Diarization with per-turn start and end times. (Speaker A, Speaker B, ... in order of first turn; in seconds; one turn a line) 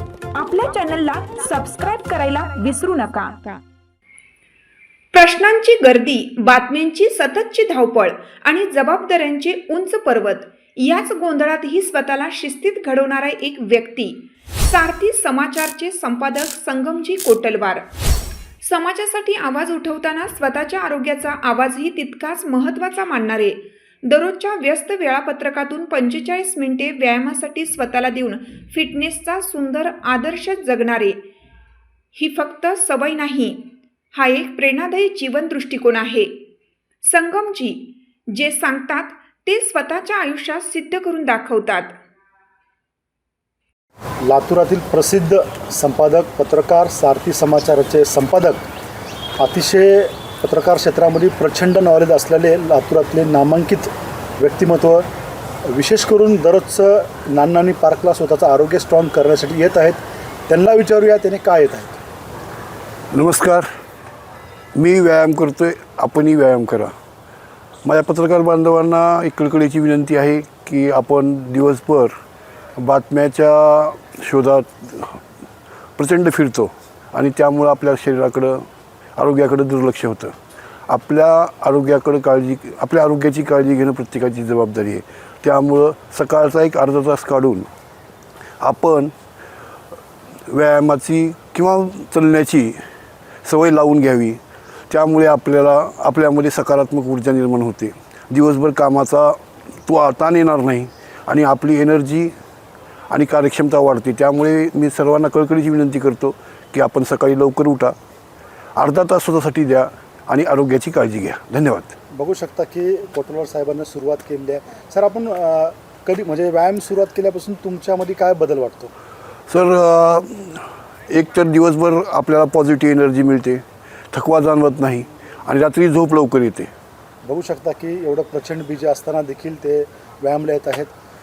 Speaker A: 0.3-3.6
Speaker A: 5.1-17.9
Speaker A: 18.6-31.2
Speaker A: 32.1-36.3
Speaker A: 37.0-42.0
Speaker B: 44.3-48.6
Speaker B: 49.4-55.0
Speaker B: 55.7-62.0
Speaker C: 63.1-63.7
Speaker C: 64.8-66.9
Speaker C: 67.8-72.1
Speaker C: 72.8-75.2
Speaker C: 76.0-80.3
Speaker C: 80.9-87.7
Speaker C: 88.6-89.1
Speaker C: 90.5-92.8
Speaker C: 93.4-102.3
Speaker C: 103.1-108.0
Speaker C: 108.8-111.9
Speaker B: 112.1-118.9
Speaker C: 119.5-126.7
Speaker B: 127.2-130.9